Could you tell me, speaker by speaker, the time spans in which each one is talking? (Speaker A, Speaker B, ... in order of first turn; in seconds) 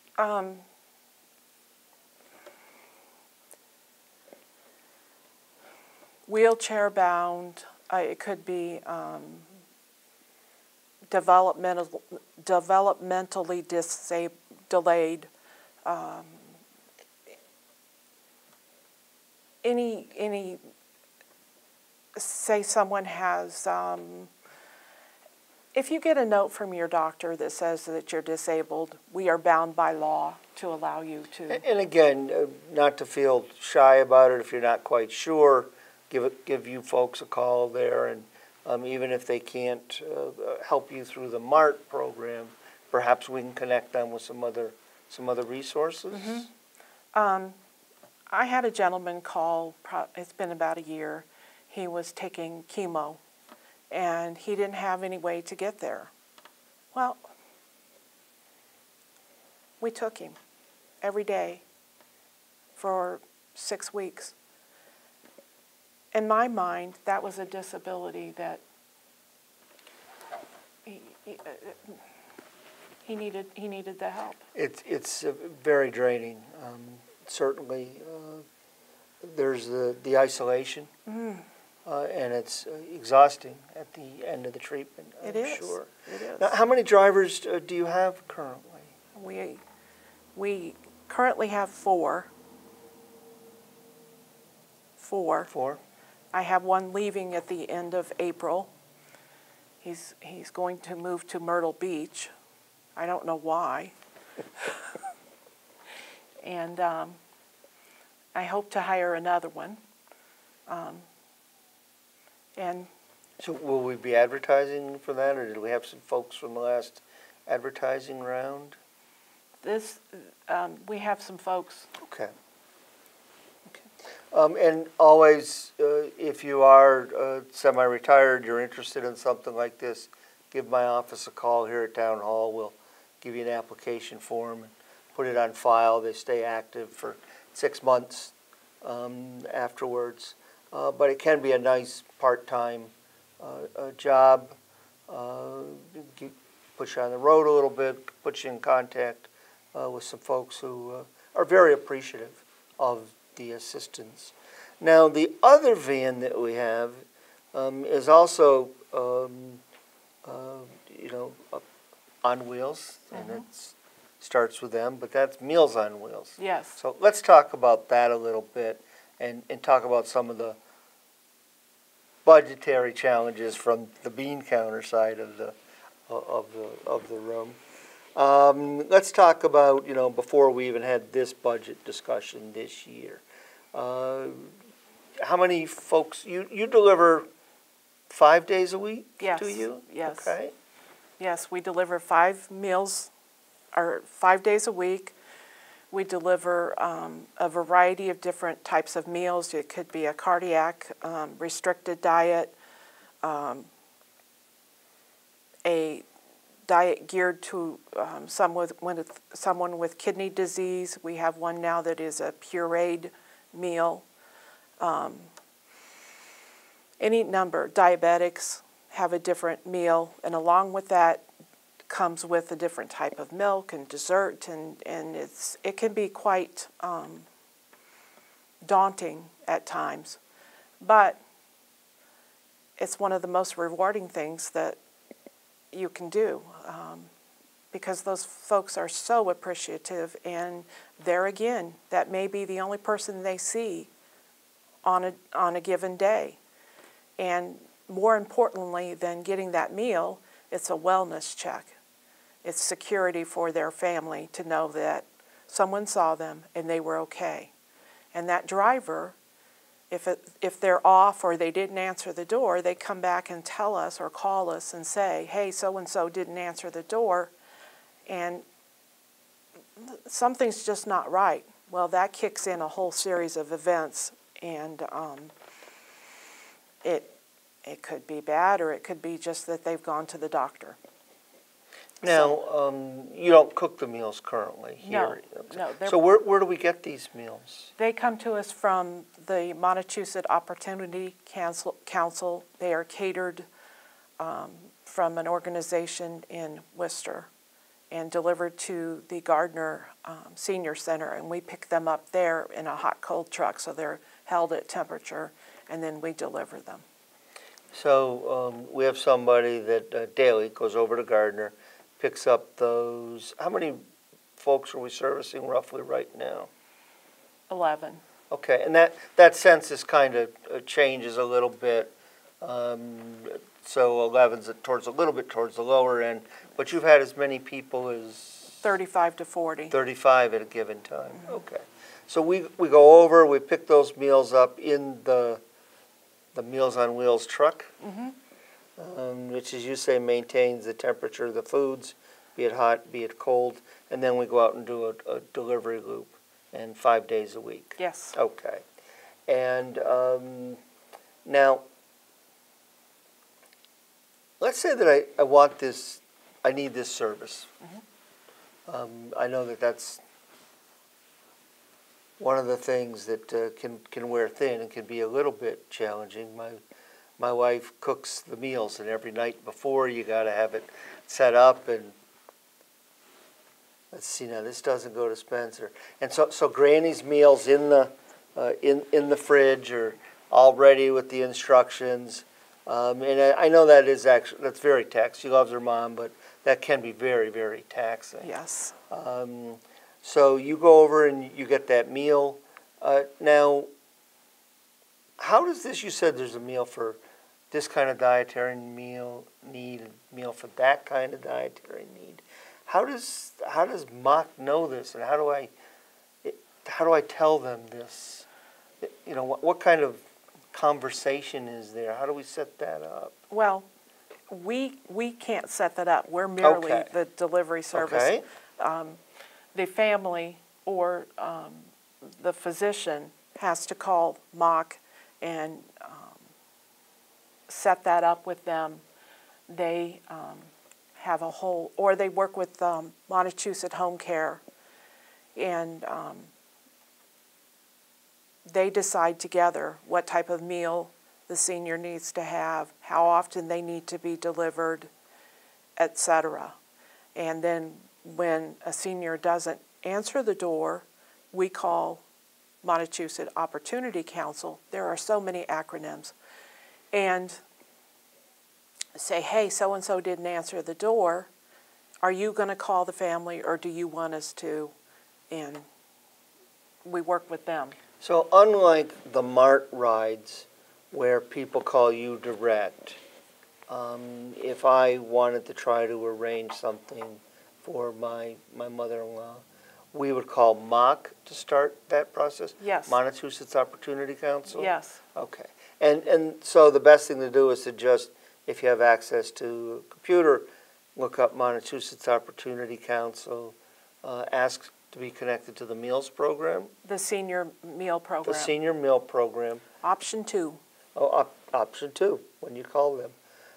Speaker A: 0.2-0.6, 6.3-9.5, 11.1-15.3, 15.8-16.5, 19.6-20.6, 22.1-24.3, 25.7-31.6, 46.1-46.5, 47.1-47.6, 48.3-53.2, 53.9-56.1, 56.9-57.2, 59.8-60.4, 61.0-61.6, 62.8-64.3, 66.1-68.6, 70.8-71.9, 73.0-74.4, 81.1-81.5, 85.2-86.5, 89.1-89.6, 90.3-92.3, 95.0-95.5, 96.3-98.7, 99.8-102.3, 103.0-103.9, 106.4-107.2, 108.3-109.8, 110.7-111.0, 112.5-112.9, 119.6-121.9, 163.1-163.4, 166.4-166.8, 189.2-190.3, 191.2-193.1, 193.7-195.1, 195.9-202.5, 203.2-203.7, 205.6-206.0, 206.7-214.0, 214.8-215.3, 217.0-221.2, 221.9-227.3, 228.6-230.2, 230.8-231.2, 232.8-234.8, 235.7-237.1, 237.7-243.9, 244.8-246.4, 247.2-251.7, 252.4-257.5, 258.1-259.1, 259.9-267.3, 268.1-268.4, 269.8-275.3, 276.8-280.8, 282.0-282.4, 284.8-286.0, 287.8-293.4, 294.2-297.3, 297.9-306.8, 317.5-318.0, 328.6-329.7, 337.8-338.1, 347.8-348.2, 388.2-388.8, 413.3-413.6, 414.3-419.0, 419.5-426.2, 427.5-428.8, 429.5-434.4, 435.3-436.3, 438.4-444.9, 445.8-446.6, 447.1-452.0, 452.6-456.1, 456.9-457.4, 458.9-461.3, 462.0-464.7, 465.3-465.6, 466.8-467.8, 482.6-482.9, 484.6-485.0, 496.8-498.6, 499.8-500.6
Speaker B: 31.5-46.5, 74.5-78.5, 79.2-80.9, 81.8-88.9, 95.5-95.8, 113.4-118.8, 122.0-122.3, 124.3-144.5, 145.1-157.0, 157.5-159.6, 160.2-161.6, 162.2-170.6, 172.2-175.6, 176.1-177.6, 178.2-183.2, 183.7-184.6, 185.2-187.2, 188.1-190.5, 282.0-287.7, 307.7-313.8, 314.4-316.5, 318.3-328.6, 329.7-335.4, 336.3-337.7, 338.8-348.6, 349.3-350.6, 351.2-351.6, 354.4-357.5, 358.7-360.0, 362.2-366.6, 367.2-371.9, 373.9-388.3, 388.9-393.7, 395.2-397.0, 397.5-405.5, 406.2-408.2, 408.8-413.1, 416.4-416.9, 417.7-418.2, 468.0-473.0, 473.7-496.7, 498.2-499.6, 500.9-503.1